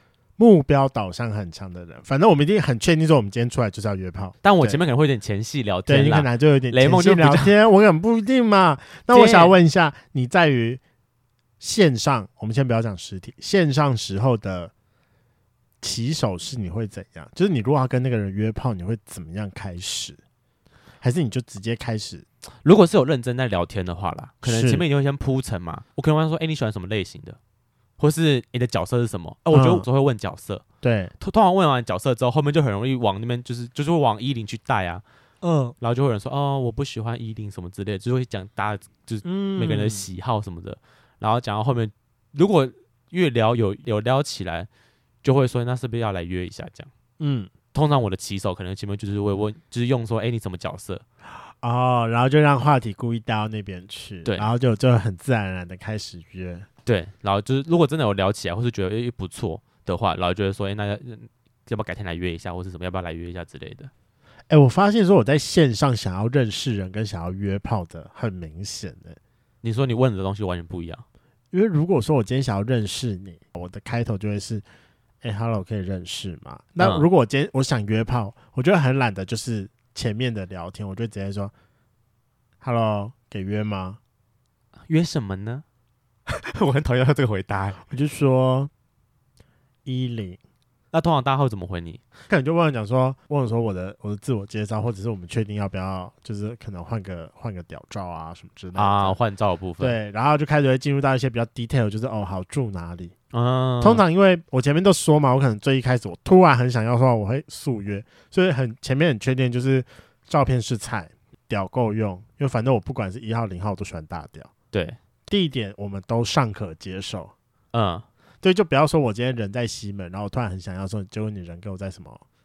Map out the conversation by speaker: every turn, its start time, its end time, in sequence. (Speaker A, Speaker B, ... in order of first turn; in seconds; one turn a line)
Speaker A: 0.4-4.8
Speaker B: 4.4-7.5
Speaker A: 5.9-10.8
Speaker B: 9.1-9.5
Speaker A: 11.6-14.7
Speaker A: 15.8-20.2
Speaker A: 21.0-22.2
Speaker B: 22.6-27.4
Speaker A: 24.4-24.8
Speaker B: 28.0-30.6
Speaker A: 29.5-29.9
Speaker A: 30.8-31.1
Speaker B: 31.2-35.0
Speaker A: 35.4-35.7
Speaker B: 35.8-44.7
Speaker A: 39.2-40.0
Speaker B: 45.2-46.9
Speaker A: 47.2-47.5
Speaker B: 47.7-51.0
Speaker A: 51.6-56.7
Speaker B: 56.9-63.9
Speaker A: 64.5-69.2
Speaker B: 69.6-71.0
Speaker A: 71.5-74.6
Speaker A: 75.2-81.5
Speaker B: 76.8-77.0
Speaker A: 82.6-84.0
Speaker B: 84.9-85.6
Speaker B: 86.3-87.8
Speaker A: 87.9-88.7
Speaker A: 89.8-90.4
Speaker B: 90.9-92.0
Speaker A: 92.3-99.2
Speaker B: 98.7-100.0
Speaker A: 99.8-103.1
Speaker B: 103.3-104.0
Speaker A: 103.8-114.5
Speaker B: 114.7-115.0
Speaker A: 115.3-117.3
Speaker B: 117.7-118.0
Speaker A: 118.4-122.2